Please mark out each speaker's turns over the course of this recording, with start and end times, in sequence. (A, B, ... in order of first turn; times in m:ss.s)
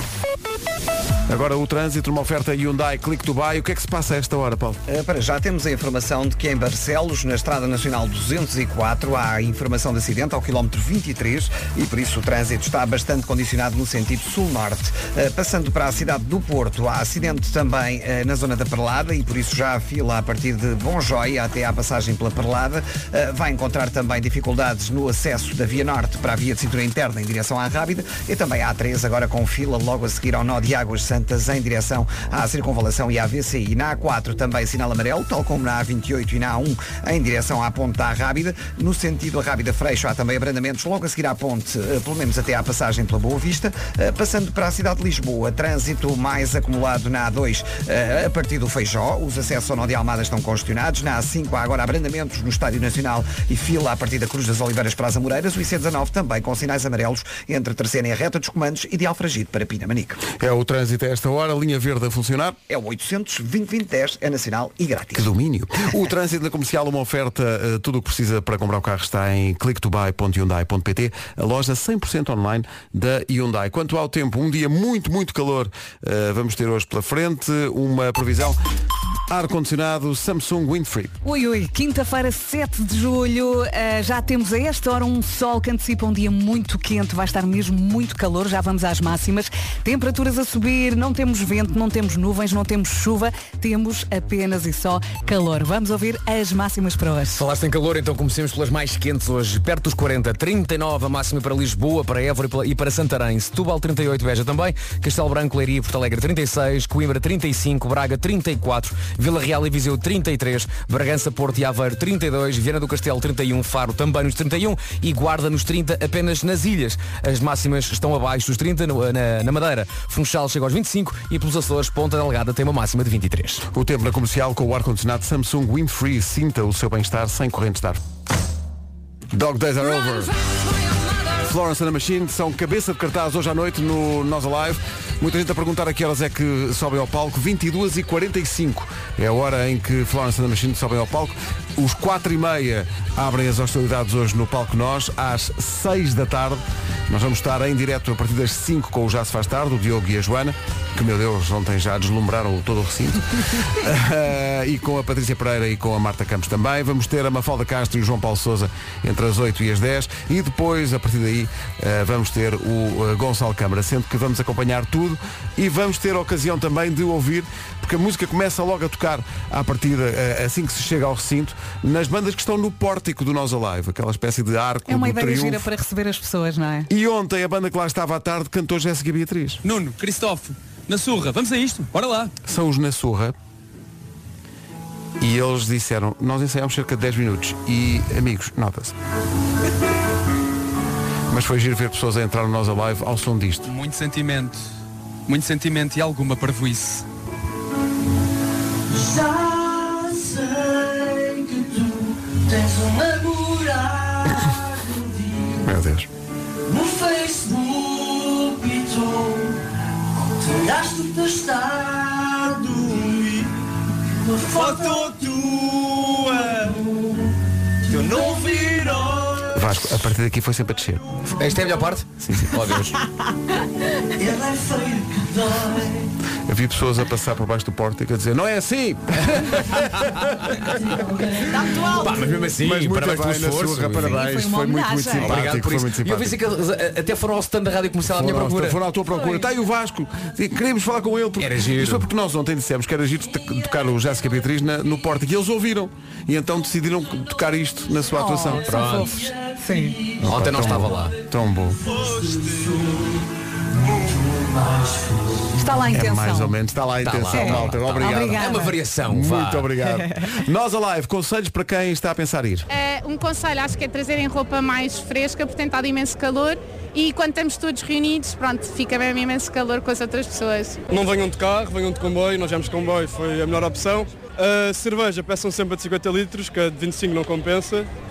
0:01.3-0:04.8 A
0:04.9-1:00.3 B
1:00.3-1:02.6 A
1:02.7-1:05.3 B
1:05.1-1:18.6 A
1:19.3-1:21.2 A
1:21.2-1:37.4 C
1:37.4-2:03.6 D
2:03.7-2:08.0 A
2:09.3-2:10.3 A
2:11.4-2:55.7 A
2:54.9-2:56.9 C
2:56.9-2:59.6 A
2:59.6-3:02.3 E
3:02.4-3:03.4 A
3:05.2-3:09.0 A
3:11.3-3:13.7 A
3:13.7-3:14.6 E
3:15.3-3:17.0 E
3:18.9-3:25.6 F
3:25.6-3:26.1 A
3:26.7-3:29.6 F
3:30.4-3:33.5 F
3:34.1-3:37.3 F
3:37.9-3:39.6 F
3:39.5-3:41.0 A
3:41.4-3:43.0 D
3:42.2-3:42.5 A
3:44.2-3:46.0 F
3:46.5-3:50.7 A
3:51.5-3:52.2 C
3:51.8-3:54.2 D
3:52.6-3:56.4 A
3:54.0-3:55.3 C
3:55.2-3:58.8 D
3:58.1-4:08.7 A
3:59.2-3:59.4 C
4:01.4-4:02.1 D
4:08.1-4:10.0 C
4:08.7-4:09.1 D
4:10.2-4:11.8 A
4:10.2-4:11.2 D
4:11.9-4:13.2 F
4:13.9-4:15.5 F
4:15.6-4:16.6 C
4:15.9-4:18.5 A
4:17.0-4:19.7 D
4:17.3-4:18.8 C
4:19.1-4:22.7 A
4:19.9-4:20.4 C
4:22.7-4:30.8 G
4:30.9-4:37.9 H